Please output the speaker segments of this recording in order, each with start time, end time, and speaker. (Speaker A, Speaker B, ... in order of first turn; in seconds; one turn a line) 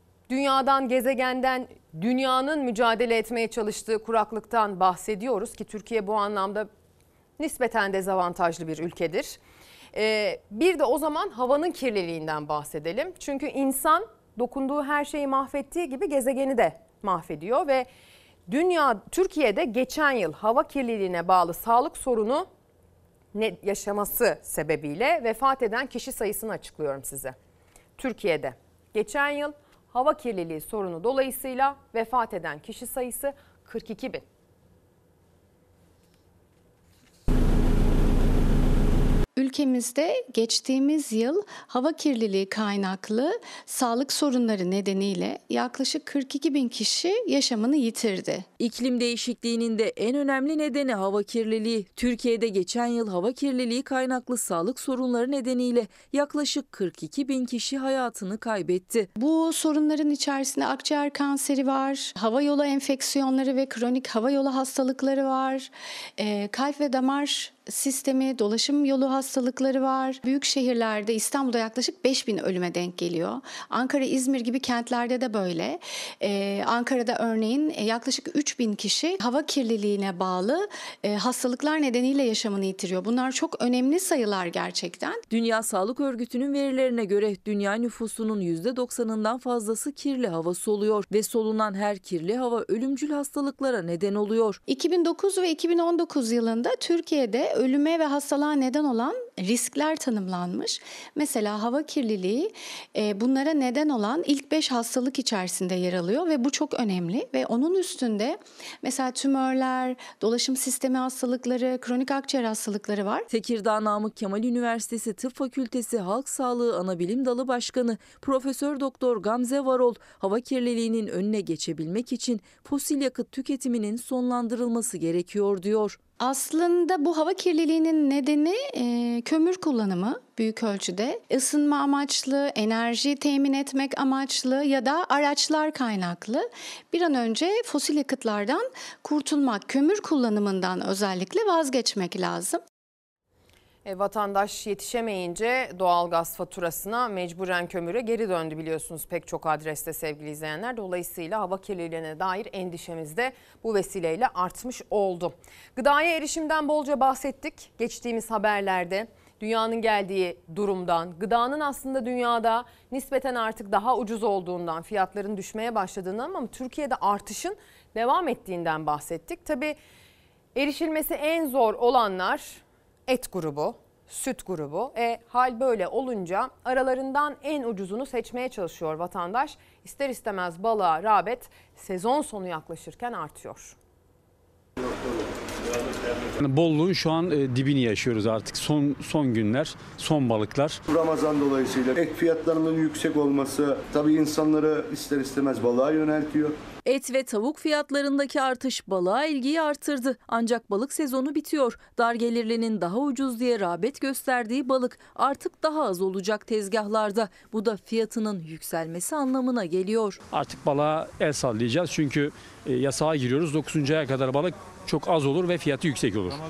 Speaker A: 0.3-6.7
Speaker A: 7.4-9.4
Speaker A: 9.9-17.9
Speaker A: 18.5-22.5
Speaker A: 23.3-27.4
Speaker A: 28.0-34.2
Speaker B: 39.4-48.5
Speaker C: 48.6-59.1
Speaker B: 59.2-85.2
Speaker C: 85.3-94.6
Speaker B: 94.7-113.3
Speaker C: 113.3-126.0
Speaker B: 126.2-142.6
Speaker A: 143.8-169.8
Speaker A: 170.6-183.8
Speaker D: 186.5-190.8
Speaker E: 190.9-196.6
Speaker C: 196.9-210.2
Speaker D: 210.3-216.3